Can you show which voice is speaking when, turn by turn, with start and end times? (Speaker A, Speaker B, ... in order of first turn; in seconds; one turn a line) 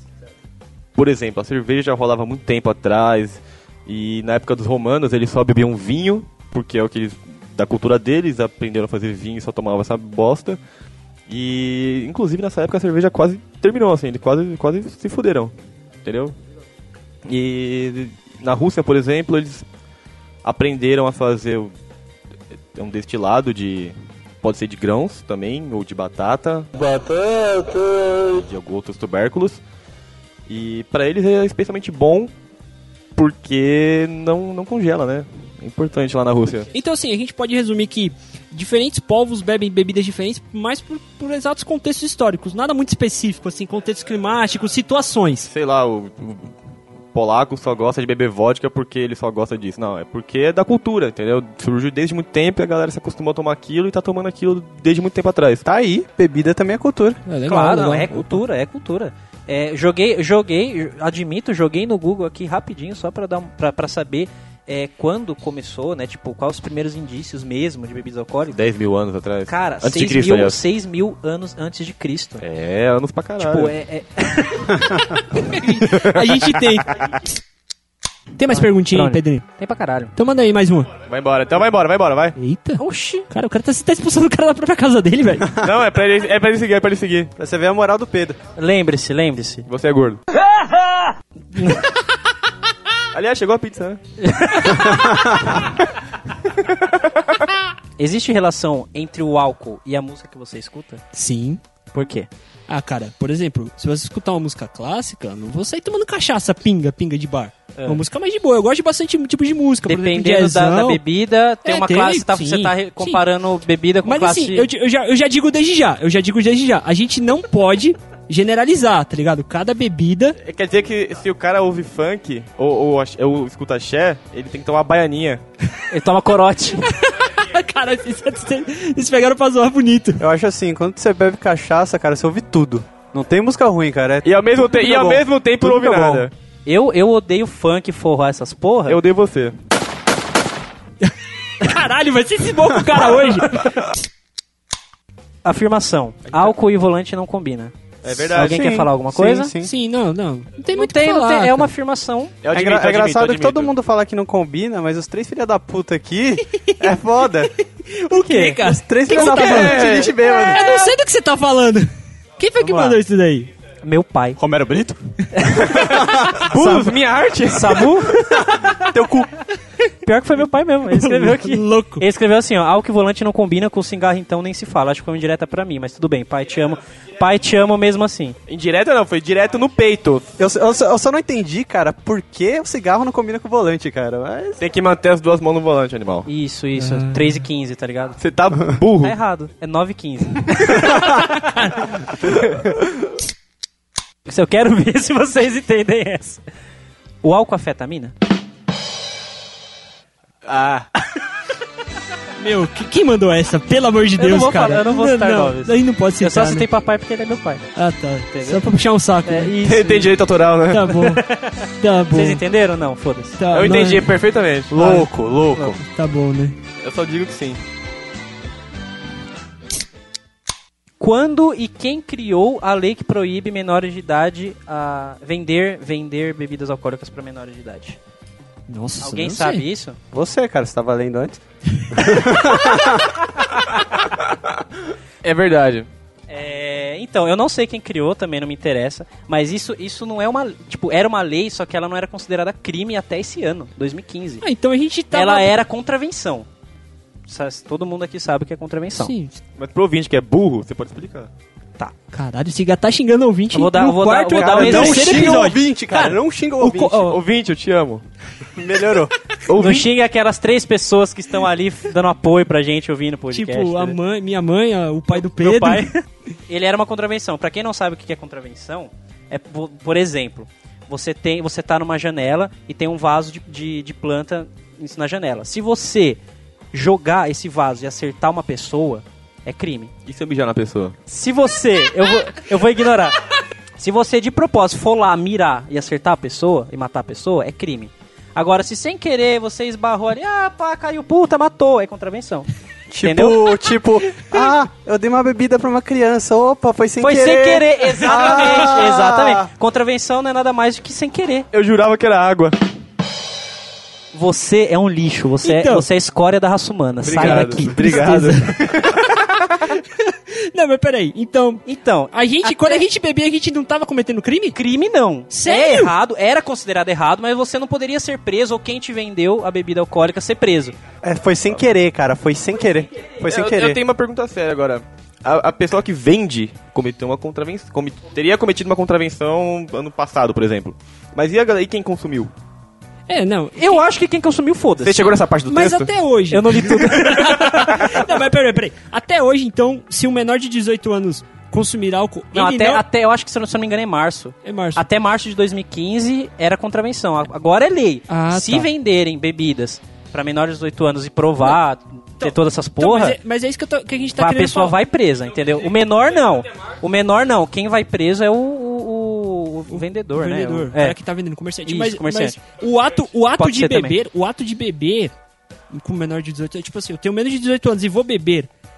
Speaker A: 0.9-10.6
Speaker A: 11.3-16.4
Speaker A: 17.3-19.6
Speaker A: 20.4-21.7
Speaker A: 22.7-26.7
Speaker A: 28.3-29.6
Speaker A: 30.5-32.3
Speaker A: 33.1-36.7
Speaker B: 36.7-45.5
Speaker A: 45.5-46.5
Speaker A: 47.1-55.6
Speaker C: 55.6-57.2
Speaker B: 57.3-58.4
Speaker D: 57.5-68.6
Speaker A: 68.5-70.6
Speaker D: 69.5-72.4
Speaker A: 72.4-73.7
Speaker D: 73.4-75.0
Speaker B: 75.2-77.1
Speaker A: 75.8-77.0
Speaker B: 78.4-79.5
Speaker D: 78.5-80.1
Speaker B: 80.2-80.9
Speaker A: 81.1-82.3
Speaker B: 82.4-85.5
Speaker D: 82.8-83.3
Speaker A: 85.6-87.3
Speaker C: 87.4-88.4
Speaker D: 88.6-89.7
Speaker A: 89.7-90.2
Speaker D: 91.5-91.9
Speaker A: 93.1-94.0
Speaker D: 94.2-95.2
Speaker A: 96.6-97.3
Speaker D: 98.0-101.0
Speaker B: 101.1-101.6
Speaker D: 101.9-102.3
Speaker B: 102.7-111.0
Speaker D: 107.8-108.0
Speaker D: 109.9-114.7
Speaker B: 111.6-113.2
Speaker B: 114.0-120.4
Speaker A: 120.4-125.4
Speaker D: 125.9-126.9
Speaker B: 127.2-130.2
Speaker C: 130.2-136.3
Speaker A: 134.2-136.3
Speaker D: 136.7-139.0
Speaker A: 138.9-139.6
Speaker B: 141.0-143.8
Speaker D: 145.4-147.7
Speaker A: 148.0-148.6
Speaker C: 148.3-149.7
Speaker D: 148.3-149.5
Speaker B: 149.6-151.7
Speaker D: 150.7-152.4
Speaker A: 152.4-153.7
Speaker C: 152.5-157.5
Speaker B: 157.6-163.5
Speaker D: 158.2-158.7
Speaker C: 158.7-160.8
Speaker A: 159.2-160.2
Speaker D: 162.6-163.0
Speaker D: 163.8-164.4
Speaker C: 164.4-167.0
Speaker D: 165.4-165.7
Speaker A: 166.3-168.4
Speaker D: 167.5-168.3
Speaker C: 168.3-169.3
Speaker D: 170.1-178.4
Speaker B: 170.9-172.0
Speaker A: 178.5-180.3
Speaker C: 180.4-184.6
Speaker A: 184.6-186.3
Speaker D: 186.3-188.2
Speaker B: 186.8-187.4
Speaker A: 188.2-189.2
Speaker D: 189.0-191.5
Speaker D: 194.3-196.4
Speaker D: 197.2-198.1
Speaker A: 200.4-200.9
Speaker B: 202.4-206.7
Speaker D: 204.2-207.7
Speaker B: 207.8-209.6
Speaker D: 208.3-208.6
Speaker D: 209.2-210.2
Speaker A: 209.6-211.0
Speaker B: 210.7-211.2
Speaker D: 211.0-213.4
Speaker B: 211.8-212.4
Speaker B: 213.4-214.2
Speaker A: 213.5-214.8
Speaker C: 214.7-215.8
Speaker B: 215.8-216.6
Speaker A: 216.8-217.6
Speaker D: 221.0-228.0
Speaker B: 228.7-229.6
Speaker D: 229.0-230.0
Speaker C: 230.1-231.4
Speaker C: 231.9-233.2
Speaker A: 235.2-235.9
Speaker D: 236.3-244.4
Speaker B: 244.4-245.6
Speaker D: 245.1-246.5
Speaker D: 247.3-249.1
Speaker B: 249.0-249.4
Speaker A: 249.6-251.3
Speaker B: 252.1-257.2
Speaker D: 253.5-255.3
Speaker C: 254.4-257.1
Speaker A: 257.0-258.0
Speaker C: 258.6-259.1
Speaker A: 259.5-259.9
Speaker D: 259.5-264.0
Speaker B: 263.3-265.9
Speaker D: 265.1-276.2
Speaker D: 276.7-279.9
Speaker A: 280.1-281.0
Speaker D: 281.1-283.2
Speaker D: 283.8-292.5
Speaker C: 292.9-299.5
Speaker D: 293.0-293.5
Speaker D: 297.0-301.5
Speaker A: 301.5-302.6
Speaker D: 304.1-308.0
Speaker B: 305.4-305.9
Speaker A: 307.0-309.1
Speaker B: 307.2-308.6
Speaker C: 308.0-308.3
Speaker B: 309.6-314.6
Speaker D: 311.7-312.8
Speaker D: 314.5-320.8
Speaker B: 315.3-315.9
Speaker C: 321.0-323.8
Speaker A: 323.2-332.3
Speaker B: 333.1-333.8
Speaker D: 333.6-335.1
Speaker A: 334.8-335.9
Speaker B: 335.5-342.8
Speaker D: 336.3-337.9
Speaker D: 342.3-353.2
Speaker B: 344.4-344.9
Speaker B: 348.1-348.7
Speaker B: 352.2-354.8
Speaker D: 354.2-361.0
Speaker B: 359.7-365.1
Speaker D: 361.7-362.4
Speaker D: 363.4-364.0
Speaker B: 365.7-368.5